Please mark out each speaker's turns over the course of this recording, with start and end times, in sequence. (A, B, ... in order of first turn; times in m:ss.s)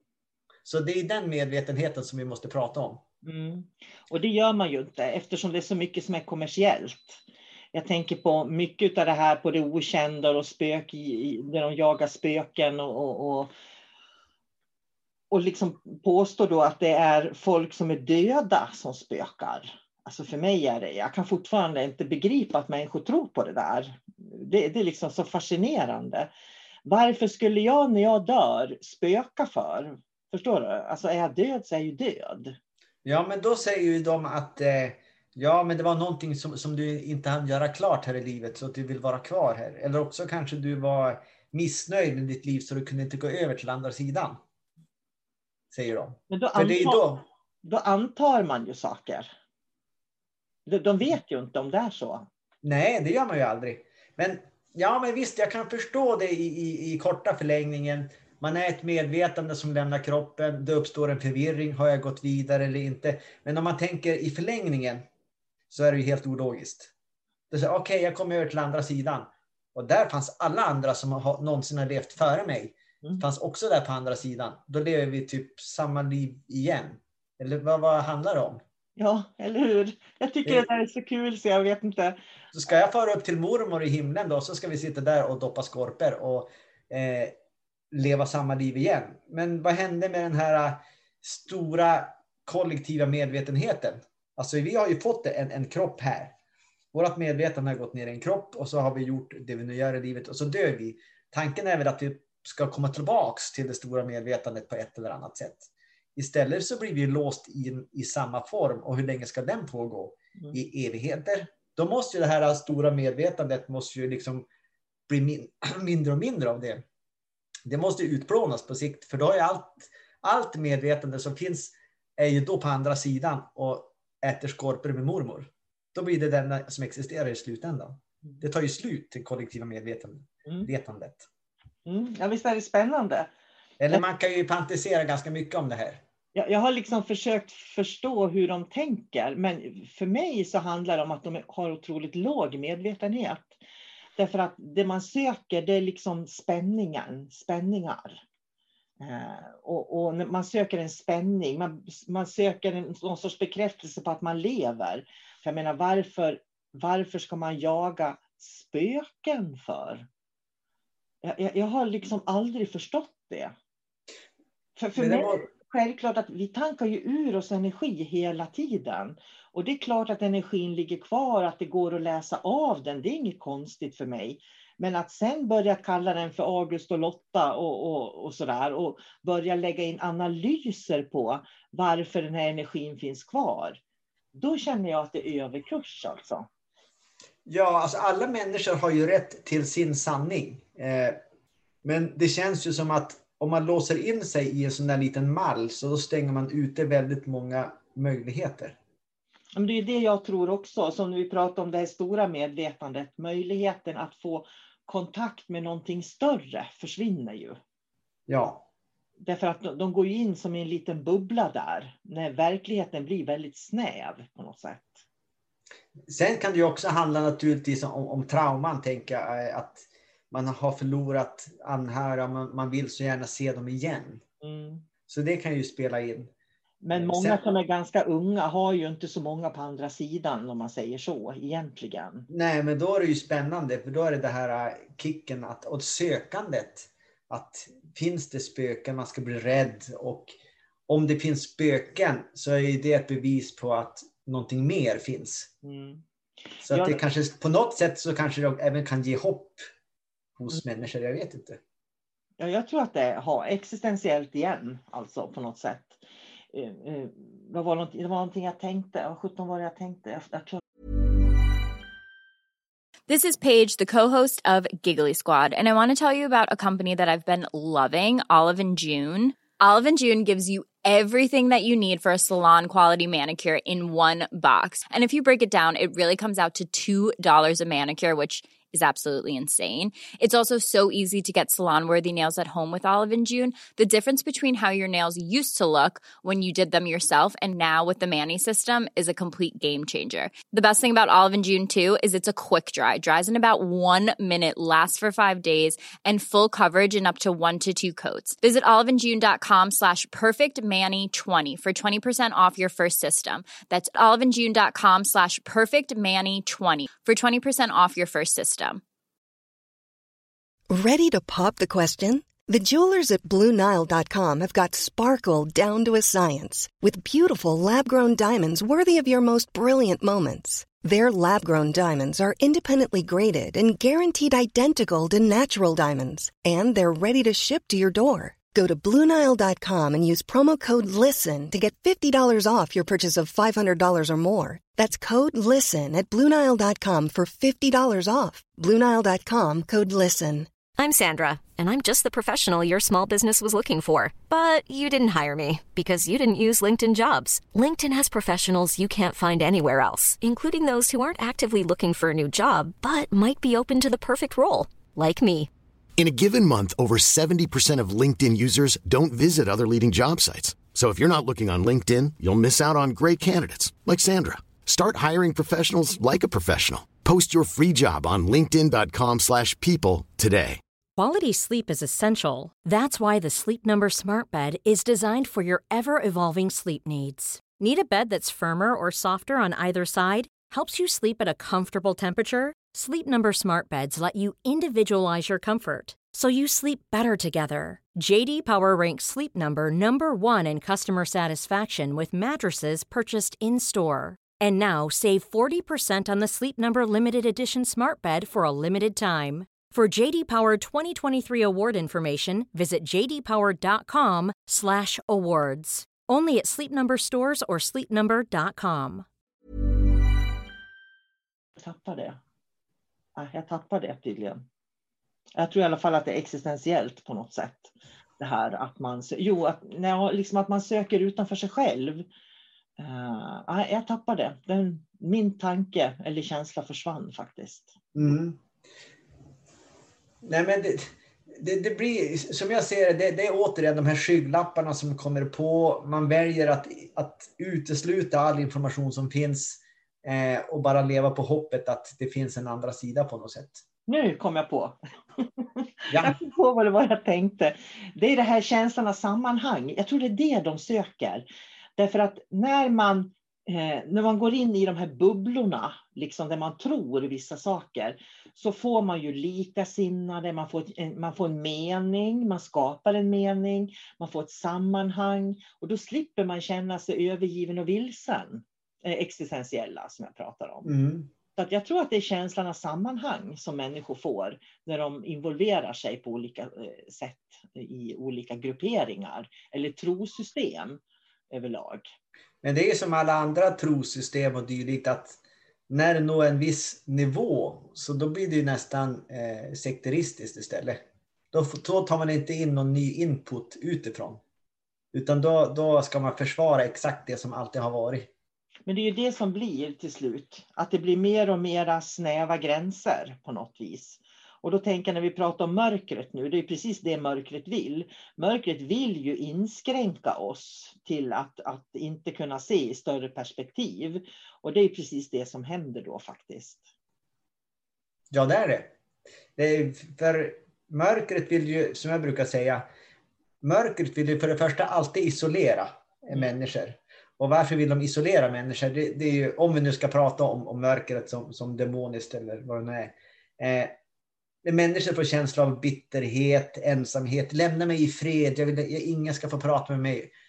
0:00.6-0:03.0 A
0:03.2-0:07.2 B
0:07.7-0:13.5 B
0:15.3-0:26.3 B
0:26.8-0:32.6 B
0:33.0-0:44.4 A
0:45.7-0:47.2 A
0:46.3-0:47.0 B
0:47.6-0:49.3 B
0:50.6-0:52.2 B
0:52.6-1:05.0 A
1:05.7-1:06.9 A
1:07.5-1:18.6 A
1:19.0-1:22.2 B
1:22.5-1:27.4 A
1:27.9-1:36.3 A
1:36.9-1:54.5 A
1:55.1-1:56.8 A
1:57.6-2:11.2 A
2:11.8-2:13.3 B
2:13.8-2:16.0 A
2:16.3-2:23.6 B
2:24.2-2:28.2 B
2:29.0-2:40.1 B
2:41.2-2:43.5 B
2:44.8-3:03.8 B
2:45.0-2:45.4 A
3:04.3-3:06.5 B
3:07.4-3:11.2 A
3:11.8-3:18.8 A
3:19.5-3:27.6 B
3:28.3-3:28.6 A
3:29.2-3:35.0 B
3:36.1-3:44.2 A
3:44.4-3:44.8 B
3:45.1-3:46.3 A
3:46.8-3:52.3 B
3:46.9-3:47.4 A
3:52.3-4:00.3 A
4:00.9-4:05.5 A
4:05.6-4:06.0 B
4:06.6-4:07.0 B
4:06.6-4:09.6 A
4:10.4-4:11.6 A
4:12.4-4:20.6 B
4:23.1-5:08.8 C
5:10.7-5:40.5 D
5:40.8-5:55.5 E
5:56.0-6:10.6 F
6:11.0-6:49.0 G
6:51.6-6:52.2 B
6:53.2-6:54.4 B
6:55.4-7:02.1 B
7:02.8-7:07.8 B
7:07.9-7:08.4 A
7:10.2-7:23.6 A
7:23.9-7:31.2 B
7:25.9-7:26.2 A
7:31.8-7:50.7 B
7:50.6-7:51.1 A
7:51.4-8:00.8 B
8:01.3-8:01.9 B
8:02.4-8:05.2 A
8:05.7-8:14.2 A
8:14.9-8:18.1 A
8:18.7-8:36.7 B
8:38.1-8:38.7 A
8:39.4-8:42.7 A
8:43.4-8:53.8 A
8:54.4-9:00.1 A